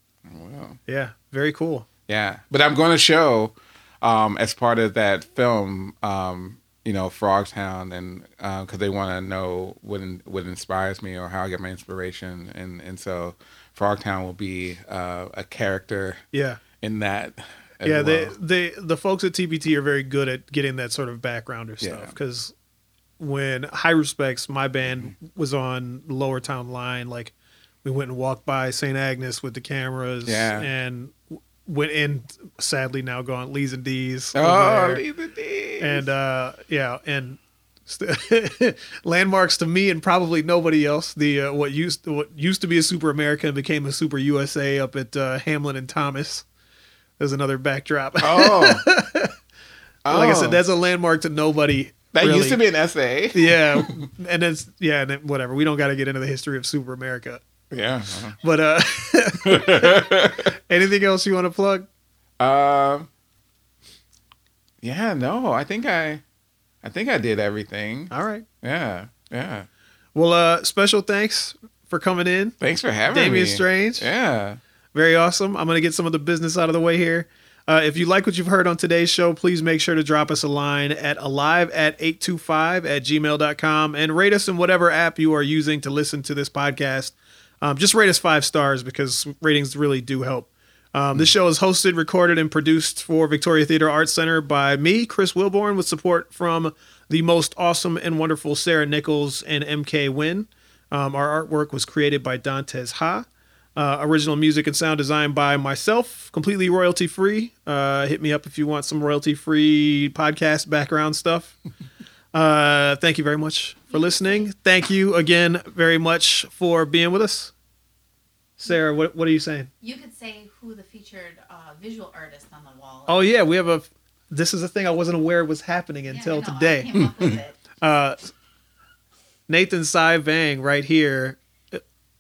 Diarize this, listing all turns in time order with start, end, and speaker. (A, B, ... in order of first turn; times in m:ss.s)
0:00.3-0:00.8 A
0:00.9-0:01.9 B
0:02.1-0:16.2 A
0:16.3-0:16.6 B
0:16.8-0:18.4 A
0:17.8-0:22.5 B
0:21.8-0:22.1 A
0:23.2-0:35.0 B
0:24.8-0:25.1 A
0:30.3-0:30.7 A
0:34.4-0:36.1 A
0:35.8-0:46.4 B
0:47.2-0:49.3 B
0:48.2-0:48.8 A
0:50.0-0:50.6 A
0:50.1-0:52.6 B
0:52.1-0:54.1 A
0:53.3-0:57.4 B
0:57.7-0:58.4 A
0:58.4-1:01.9 B
0:59.4-1:00.5 A
1:02.4-1:03.1 A
1:04.8-1:06.2 A
1:06.8-1:09.7 A
1:08.1-1:08.5 B
1:10.2-1:12.6 B
1:12.6-1:14.6 A
1:13.1-1:14.1 B
1:14.9-1:51.6 B
1:52.3-1:57.5 B
1:53.9-1:54.5 C
1:58.6-1:59.7 B
1:59.8-2:03.3 C
2:03.1-2:07.0 B
2:06.1-2:07.8 C
2:06.9-2:07.4 A
2:07.8-2:08.3 B
2:09.5-2:11.8 B